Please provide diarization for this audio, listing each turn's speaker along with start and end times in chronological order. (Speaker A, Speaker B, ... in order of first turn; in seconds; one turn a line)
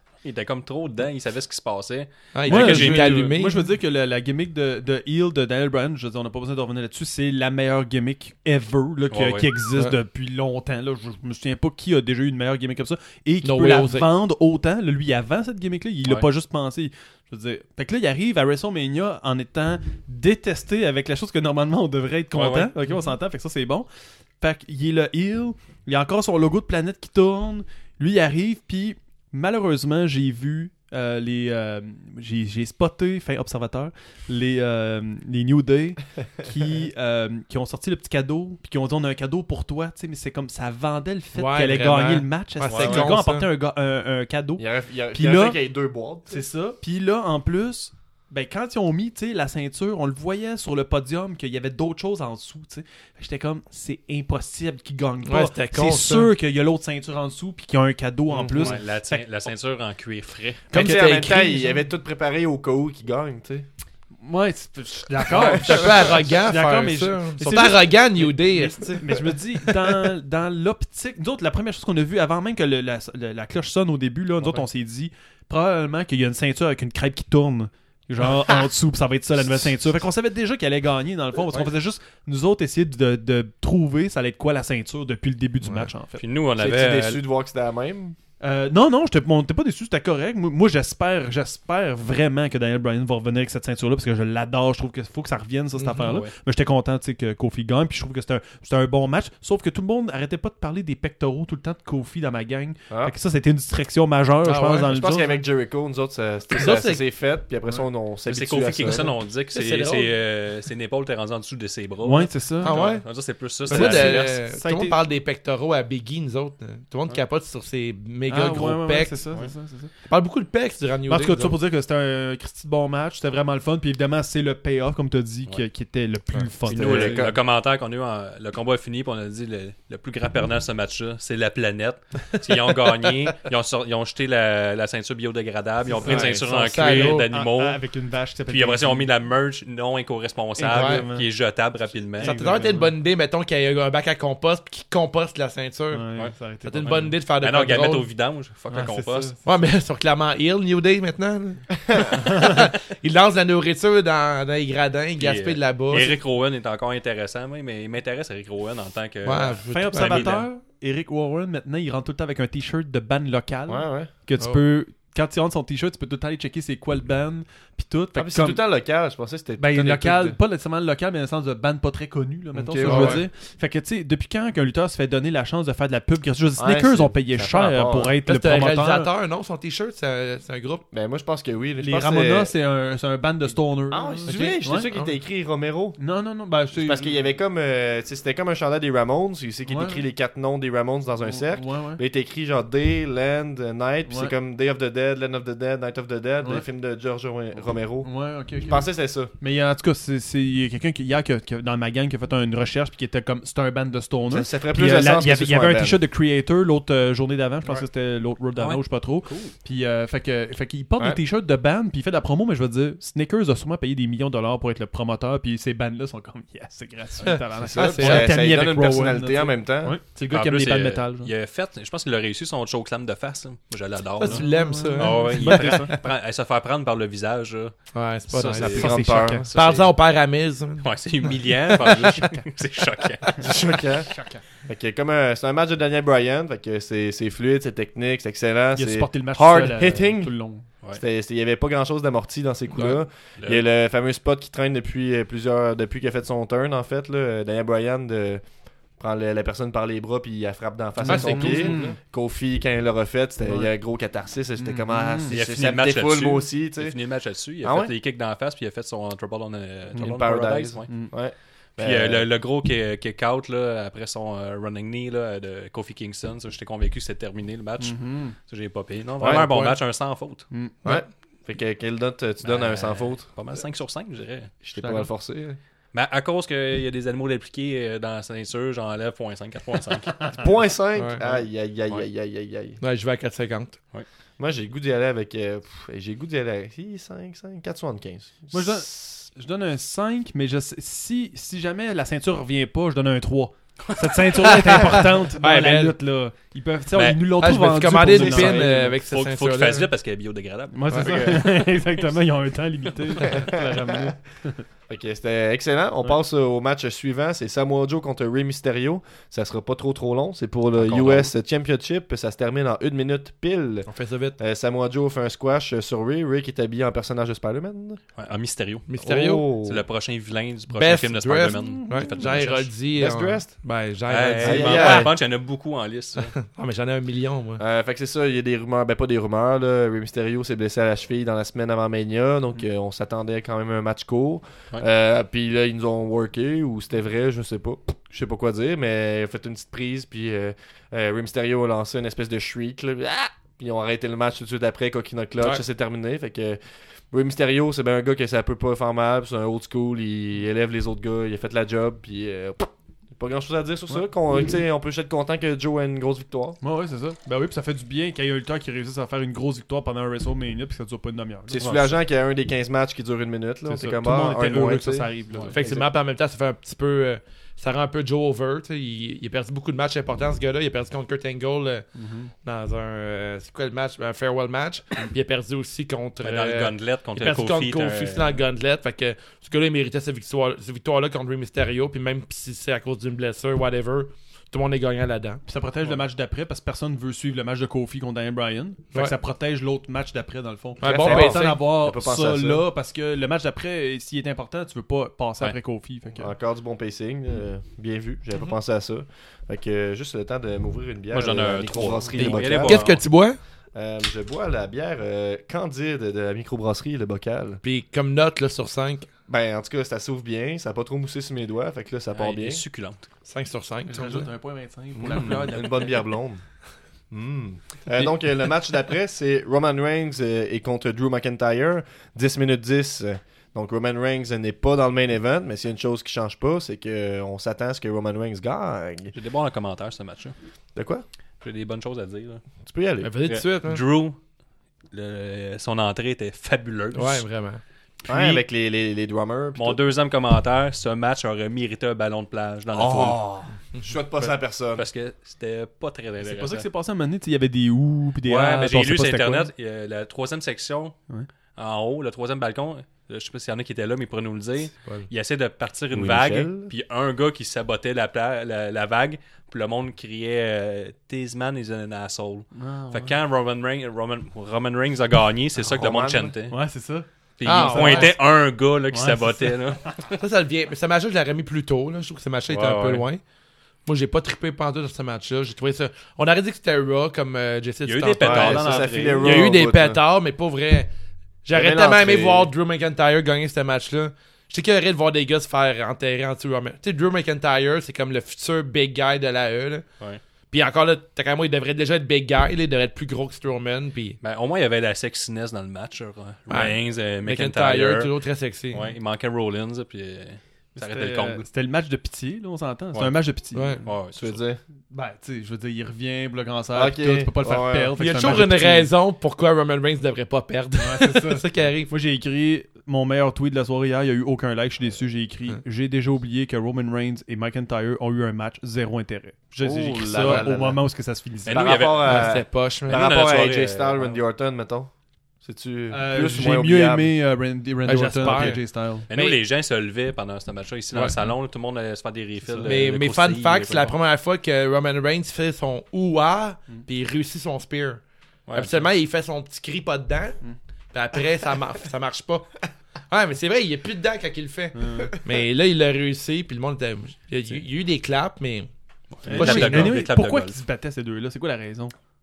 Speaker A: 0.2-3.3
Speaker B: 2.3-3.6
Speaker C: 2.5-23.9
Speaker A: 9.1-9.5
Speaker B: 13.4-14.1
Speaker A: 22.3-22.7
Speaker C: 24.4-45.6
Speaker B: 41.3-43.5
Speaker D: 42.7-43.1
Speaker D: 44.6-46.5
Speaker C: 46.3-59.2
Speaker B: 55.2-56.3
Speaker D: 58.3-58.7
Speaker A: 58.5-60.7
Speaker B: 60.7-61.7
Speaker D: 60.7-63.6
Speaker C: 64.2-86.2
Speaker A: 65.3-65.7
Speaker D: 65.3-66.0
Speaker B: 65.3-69.7
Speaker B: 85.6-85.9
Speaker A: 86.2-87.2
Speaker D: 86.6-88.2
Speaker C: 88.4-105.4
Speaker B: 95.8-96.2
Speaker A: 96.0-96.3
Speaker B: 104.4-104.9
Speaker D: 104.8-109.1
Speaker B: 106.5-107.0
Speaker A: 108.3-114.4
Speaker B: 109.5-110.1
Speaker C: 112.0-112.8
Speaker B: 112.6-113.1
Speaker B: 113.7-119.2
Speaker C: 113.7-115.0
Speaker C: 118.3-119.9
Speaker B: 120.1-121.5
Speaker C: 121.1-127.3
Speaker A: 126.7-137.8
Speaker D: 126.7-127.3
Speaker C: 135.8-139.1
Speaker B: 136.0-137.3
Speaker A: 138.5-142.4
Speaker C: 140.6-141.3
Speaker B: 140.7-141.0
Speaker C: 142.2-142.9
Speaker B: 142.2-148.1
Speaker C: 145.9-147.1
Speaker A: 146.8-149.4
Speaker C: 148.7-149.4
Speaker B: 149.4-156.2
Speaker A: 155.2-160.5
Speaker B: 159.2-160.4
Speaker C: 159.7-168.6
Speaker D: 163.7-164.1
Speaker D: 168.1-170.4
Speaker C: 169.6-179.1
Speaker D: 172.5-173.2
Speaker B: 172.8-173.2
Speaker D: 176.6-178.2
Speaker B: 178.2-180.8
Speaker D: 180.9-182.5
Speaker C: 181.8-184.9
Speaker D: 183.9-186.0
Speaker B: 184.2-185.1
Speaker C: 186.0-187.1
Speaker D: 186.7-199.3
Speaker C: 189.7-190.0
Speaker C: 191.2-192.0
Speaker C: 194.1-194.3
Speaker C: 198.0-198.8
Speaker C: 199.4-221.3
Speaker D: 204.3-206.0
Speaker A: 208.6-209.5
Speaker B: 217.2-218.3
Speaker D: 217.6-220.0
Speaker A: 220.3-227.8
Speaker B: 224.2-225.8
Speaker C: 224.2-225.9
Speaker B: 227.9-228.8
Speaker A: 228.3-229.9
Speaker D: 228.6-229.6
Speaker C: 228.7-229.5
Speaker B: 229.5-230.9
Speaker A: 230.8-233.6
Speaker B: 231.8-232.1
Speaker D: 233.4-234.1
Speaker D: 234.6-240.3
Speaker C: 238.8-240.7
Speaker D: 240.9-248.4
Speaker A: 243.4-243.6
Speaker D: 249.0-256.9
Speaker C: 251.0-252.0
Speaker B: 251.1-251.8
Speaker C: 254.6-255.3
Speaker A: 255.3-261.1
Speaker D: 257.6-257.9
Speaker D: 259.9-262.2
Speaker A: 261.8-270.5
Speaker C: 267.8-268.4
Speaker D: 269.2-269.7
Speaker D: 270.8-273.3
Speaker A: 272.4-274.5
Speaker D: 274.6-275.6
Speaker C: 274.8-275.1
Speaker A: 275.9-280.4
Speaker D: 280.4-282.8
Speaker B: 280.9-281.2
Speaker B: 282.8-283.8
Speaker D: 284.4-289.1
Speaker C: 288.5-298.7
Speaker A: 293.9-294.2
Speaker B: 294.4-295.9
Speaker A: 296.9-297.3
Speaker B: 297.4-299.9
Speaker D: 298.1-298.7
Speaker A: 298.9-302.1
Speaker C: 300.7-304.6
Speaker A: 303.0-303.3
Speaker D: 303.2-304.1
Speaker D: 304.9-318.0
Speaker A: 310.8-311.3
Speaker B: 313.9-314.4
Speaker A: 318.1-318.9
Speaker B: 318.9-319.5
Speaker D: 319.0-319.8
Speaker A: 319.6-322.7
Speaker B: 320.7-325.1
Speaker D: 322.9-323.5
Speaker A: 324.1-326.3
Speaker D: 324.4-325.1
Speaker B: 326.2-327.6
Speaker D: 327.6-346.6
Speaker D: 347.1-356.6
Speaker C: 356.6-361.9
Speaker D: 361.5-365.8
Speaker C: 363.7-365.8
Speaker B: 365.5-371.9
Speaker C: 372.0-372.3
Speaker B: 372.4-385.4
Speaker A: 376.2-378.4
Speaker C: 385.5-396.3
Speaker B: 390.8-391.6
Speaker D: 390.9-392.6
Speaker D: 396.2-402.8
Speaker A: 401.1-403.0
Speaker B: 402.6-403.4
Speaker D: 403.7-407.6
Speaker B: 407.6-409.1
Speaker D: 409.3-412.6
Speaker A: 412.1-413.1
Speaker B: 413.2-414.3
Speaker C: 413.9-416.0
Speaker D: 414.9-416.4
Speaker D: 417.1-429.1
Speaker A: 429.1-430.3
Speaker D: 430.8-431.0
Speaker A: 431.4-432.5
Speaker D: 432.6-433.1
Speaker B: 433.0-433.8
Speaker A: 433.3-434.2
Speaker A: 434.9-437.2
Speaker B: 436.9-437.6
Speaker D: 438.1-439.8
Speaker A: 439.6-443.2
Speaker D: 442.7-444.8
Speaker B: 443.7-444.0
Speaker A: 444.7-446.7
Speaker C: 446.2-449.5
Speaker A: 448.2-451.0
Speaker A: 451.6-466.6
Speaker B: 454.8-455.1
Speaker D: 455.9-456.7
Speaker C: 462.6-463.1
Speaker D: 465.6-466.4
Speaker C: 466.5-468.2
Speaker A: 467.4-470.1
Speaker B: 467.4-468.1
Speaker C: 468.9-469.9
Speaker B: 470.2-473.2
Speaker A: 472.5-473.0
Speaker B: 473.9-480.9
Speaker A: 477.8-479.4
Speaker D: 478.2-480.0
Speaker B: 481.4-489.9
Speaker D: 481.5-482.5
Speaker B: 490.5-494.2
Speaker A: 494.2-498.1
Speaker B: 496.5-498.9
Speaker A: 498.7-501.4
Speaker C: 500.8-503.9
Speaker B: 503.5-503.8
Speaker A: 503.8-504.4
Speaker D: 504.1-504.6
Speaker C: 504.9-508.9
Speaker D: 506.7-507.9
Speaker B: 508.0-511.9
Speaker C: 510.8-521.8
Speaker D: 519.6-520.8
Speaker A: 521.5-522.3
Speaker D: 521.5-524.9
Speaker B: 522.0-523.0
Speaker A: 522.9-524.1
Speaker D: 525.4-527.1
Speaker C: 525.9-529.1
Speaker B: 527.8-529.4
Speaker A: 529.1-533.9
Speaker C: 532.5-532.7
Speaker B: 532.6-538.0
Speaker A: 538.5-538.9
Speaker B: 538.5-540.4
Speaker B: 540.9-542.6
Speaker B: 543.1-548.7
Speaker C: 544.8-545.1
Speaker A: 549.1-550.6
Speaker B: 549.2-549.9
Speaker C: 549.3-551.9